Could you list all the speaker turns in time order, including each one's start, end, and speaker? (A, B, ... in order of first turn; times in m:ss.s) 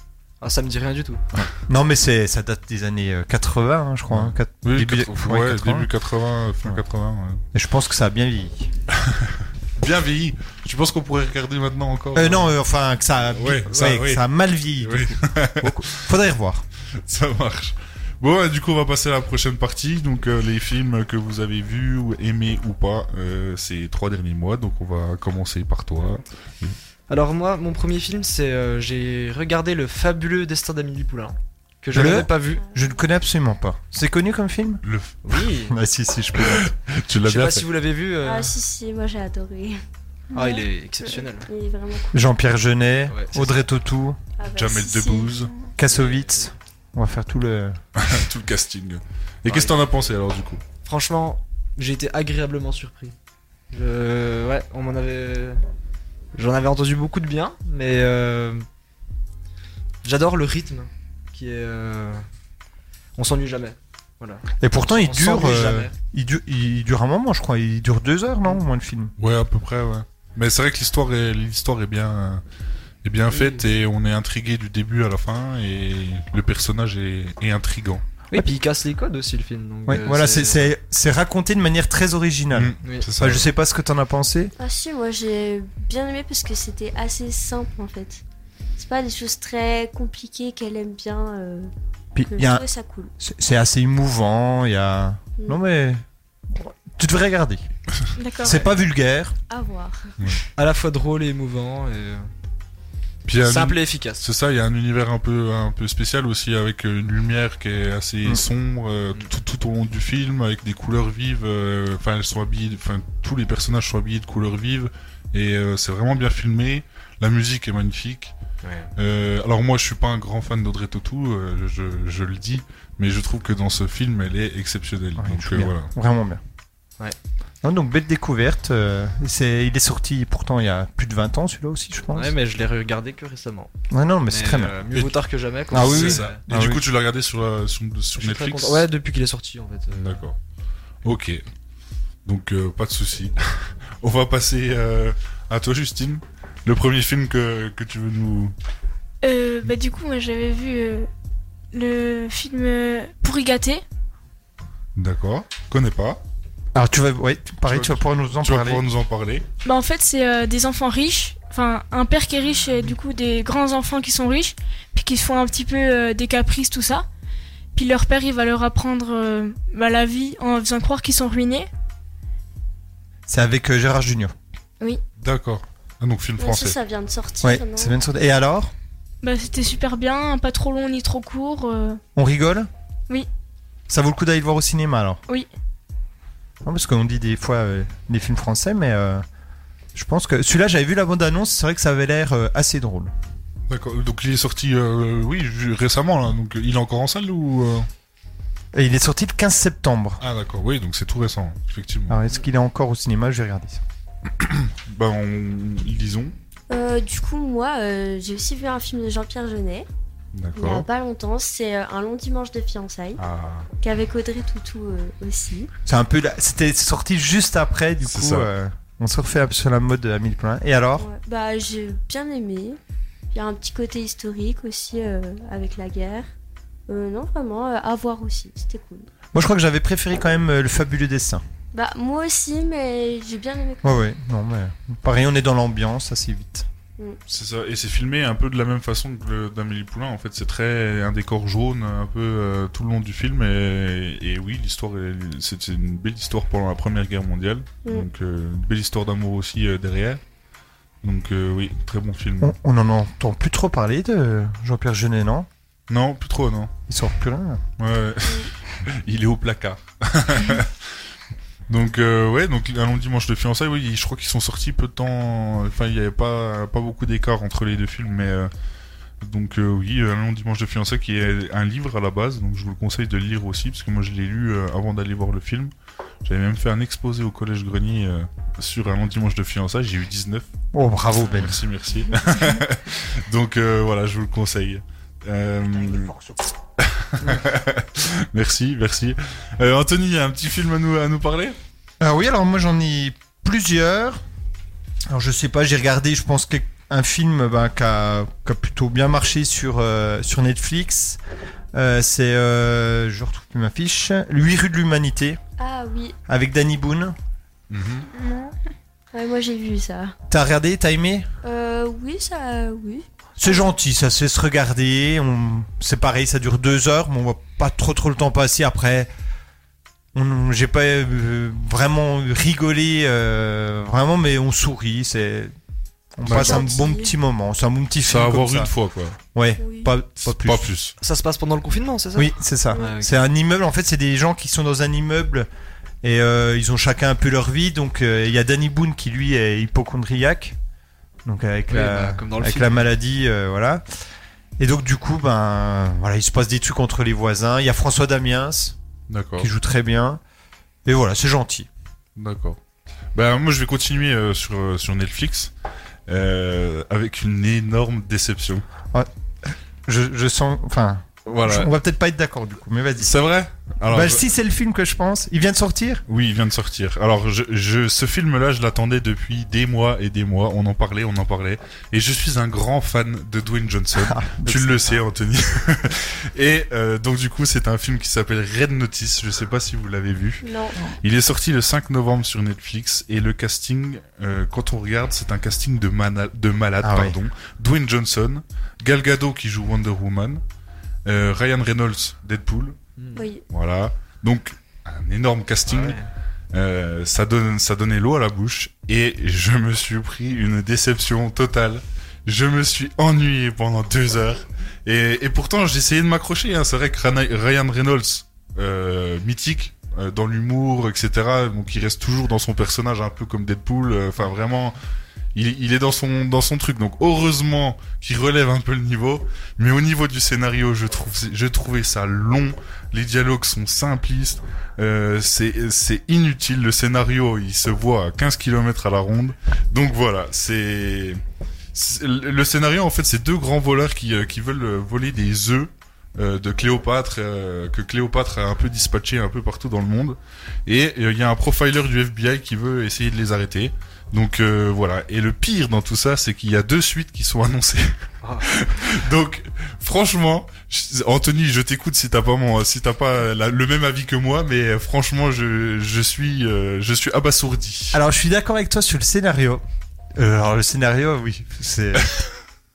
0:00.4-0:01.2 A
0:01.4-0:05.9 B
0:04.1-0:07.4 C
0:07.5-0:08.7 B
0:09.1-0:12.5 C
0:12.1-0:16.6 B
0:13.2-0:14.2 C
0:14.8-0:16.0 C
0:17.0-0:26.8 C
0:27.1-0:32.6 A
0:31.9-0:34.8 B
0:34.8-0:35.3 C
0:35.2-0:35.8 A
0:35.6-0:36.7 B
0:36.4-0:37.7 C
0:37.2-0:38.6 A
0:38.2-0:39.8 D
0:40.3-0:40.6 E
0:40.3-0:41.5 A
0:41.4-0:42.2 D
0:42.1-0:44.2 B
0:43.1-0:43.6 A
0:44.4-0:45.3 D
0:44.5-0:45.5 C
0:45.8-0:47.8 B
0:45.8-0:46.5 A
0:48.0-0:50.6 C
0:49.5-0:49.8 A
0:50.8-0:53.2 A
0:53.7-0:55.6 A
0:56.3-0:58.6 A
1:00.0-1:02.2 A
1:03.2-1:05.9 A
1:04.6-1:09.1 B
1:09.2-1:12.4 C
1:13.0-1:18.0 C
1:13.3-1:13.6 A
1:18.3-1:20.7 A
1:19.8-1:24.5 B
1:22.5-1:23.5 C
1:24.6-1:28.2 D
1:28.8-1:31.7 D
1:32.1-1:32.6 B
1:32.3-1:33.1 D
1:33.2-1:37.6 B
1:38.2-1:38.6 E
1:38.4-1:39.4 B
1:39.5-1:40.2 D
1:40.6-1:42.3 A
1:43.2-1:58.3 C
1:43.4-1:44.2 A
1:58.6-1:58.9 A
1:59.0-2:05.9 C
2:05.2-2:06.4 B
2:07.6-2:12.3 B
2:12.1-2:13.7 A
2:13.9-2:14.7 B
2:14.3-2:16.4 A
2:14.9-2:18.8 C
2:15.7-2:16.8 B
2:18.2-2:20.2 A
2:19.9-2:20.4 C
2:21.0-2:21.4 C
2:22.2-2:28.5 C
2:29.2-2:31.1 E
2:31.7-2:33.8 E
2:35.0-2:36.2 C
2:36.7-2:38.8 B
2:37.6-2:39.4 C
2:39.6-2:47.0 E
2:47.7-2:51.7 E
2:53.3-2:54.3 B
2:55.2-2:56.8 C
2:56.4-2:58.0 D
2:57.4-2:58.7 B
2:59.2-3:02.0 E
3:02.1-3:02.7 B
3:03.9-3:05.2 B
3:06.6-3:09.2 B
3:09.9-3:13.1 B
3:13.7-3:17.9 C
3:18.7-3:20.2 B
3:20.2-3:22.2 C
3:22.1-3:23.8 B
3:24.4-3:26.3 C
3:26.7-3:29.9 D
3:30.3-3:30.8 C
3:30.5-3:33.2 D
3:33.2-3:33.7 C
3:33.8-3:35.7 D
3:35.8-3:41.0 B
3:38.0-3:38.5 C
3:41.0-3:42.8 D
3:43.3-3:46.3 D
3:46.9-3:49.1 D
3:49.3-3:51.4 B
3:51.7-3:54.0 D
3:53.8-3:56.6 B
3:57.3-4:10.2 C
4:11.0-4:12.5 C
4:12.4-4:15.5 B
4:15.9-4:16.7 C
4:16.9-4:17.6 B
4:17.8-4:20.7 C
4:21.7-4:28.5 C
4:29.2-4:35.7 C
4:36.2-4:40.4 C
4:40.7-4:41.6 B
4:41.2-4:46.2 C
4:46.8-4:51.6 C
4:52.0-4:54.2 B
4:55.1-5:01.2 B
5:01.7-5:05.4 B
5:05.6-5:06.2 D
5:06.3-5:07.1 B
5:07.7-5:08.0 C
5:08.2-5:08.5 E
5:09.1-5:10.2 D
5:10.3-5:11.3 B
5:11.4-5:13.6 D
5:13.4-5:19.1 B
5:20.1-5:25.5 B
5:26.2-5:28.7 B
5:26.2-5:26.6 C
5:26.3-5:27.1 D
5:26.4-5:26.8 E
5:28.0-5:29.2 C
5:29.3-5:30.7 B
5:29.6-5:29.9 D
5:30.2-5:30.9 C
5:31.0-5:33.2 A
5:32.1-5:35.5 B
5:36.0-5:40.6 B
5:41.2-5:43.8 B
5:41.7-5:42.8 A
5:44.6-5:48.8 B
5:49.1-5:49.5 C
5:49.4-5:50.2 B
5:50.8-5:51.7 B
5:52.2-5:52.6 C
5:53.1-5:55.5 C
5:56.1-5:58.6 C
5:58.9-6:03.2 B
6:01.2-6:01.7 C
6:03.0-6:04.2 C
6:03.8-6:06.0 B
6:06.1-6:30.4 C
6:14.0-6:15.0 B
6:20.4-6:20.8 D
6:26.8-6:27.2 B
6:31.0-6:32.8 C
6:33.0-6:33.2 A
6:33.1-6:33.4 D
6:33.5-6:36.0 C
6:35.6-6:36.1 A
6:36.5-6:54.8 C
6:55.3-7:11.2 C
7:11.7-7:38.0 C
7:37.9-7:39.6 B
7:40.2-7:42.1 B
7:42.0-7:42.3 C